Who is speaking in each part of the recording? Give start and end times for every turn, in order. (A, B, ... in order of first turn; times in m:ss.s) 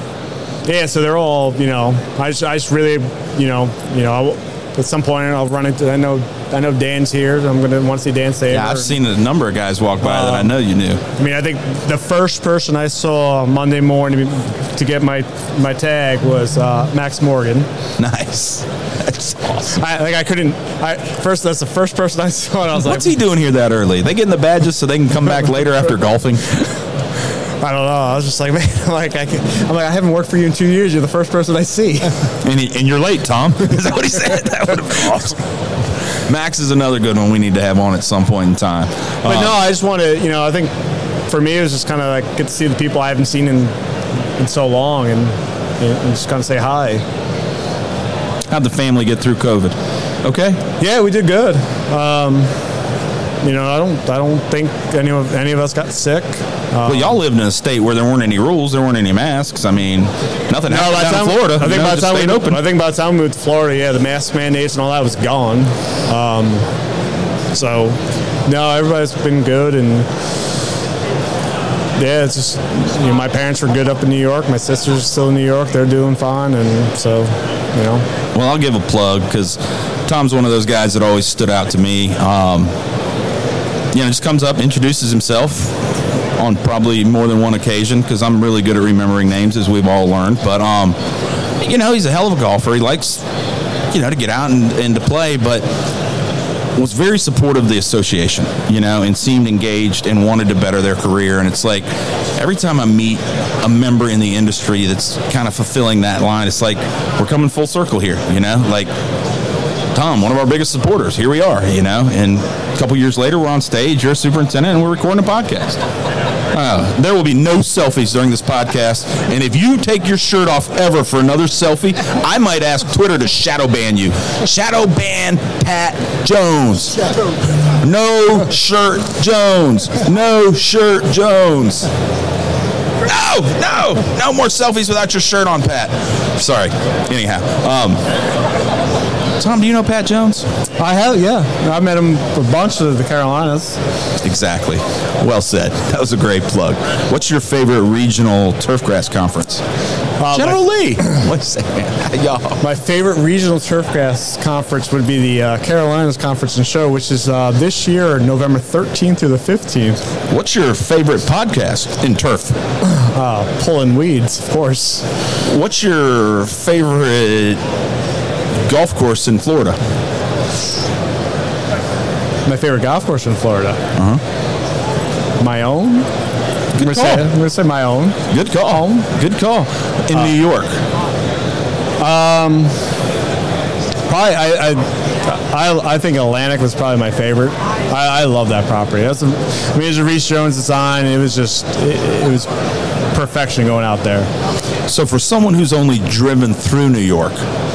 0:00.6-0:09.0 A
0:08.5-0:11.0 B
0:10.0-0:10.6 A
0:11.2-0:17.7 A
0:18.0-0:19.8 B
0:19.7-0:23.2 A
0:22.8-0:26.7 B
0:27.6-0:32.1 A
0:32.4-0:35.4 B
0:36.3-0:39.6 B
0:39.2-0:40.7 A
0:41.3-0:43.7 A
0:44.4-0:47.0 A
0:48.5-0:50.6 B
0:50.8-0:52.5 A
0:53.4-0:57.2 A
0:56.9-1:02.6 B
1:00.7-1:06.7 A
1:07.5-1:10.1 A
1:12.0-1:18.1 A
1:18.3-1:22.7 B
1:23.9-1:25.8 B
1:26.4-1:31.0 B
1:31.6-1:33.2 B
1:33.9-1:35.6 B
1:36.8-1:48.9 B
1:49.9-1:55.8 B
1:56.5-2:07.0 B
2:07.8-2:11.9 B
2:13.0-2:18.0 B
2:19.4-2:20.5 B
2:20.8-2:23.8 A
2:24.2-2:29.6 B
2:30.2-2:31.2 A
2:30.3-2:32.6 B
2:32.6-2:40.0 A
2:40.3-2:42.6 B
2:42.8-2:45.1 A
2:45.4-2:47.6 B
2:48.7-2:49.8 B
2:52.5-2:53.8 A
2:54.0-2:54.2 B
2:55.4-2:56.1 A
2:56.8-2:57.3 B
2:56.8-2:59.0 A
2:58.3-3:00.8 B
3:02.0-3:02.8 A
3:04.1-3:12.5 A
3:13.1-3:14.3 A
3:14.9-3:17.4 B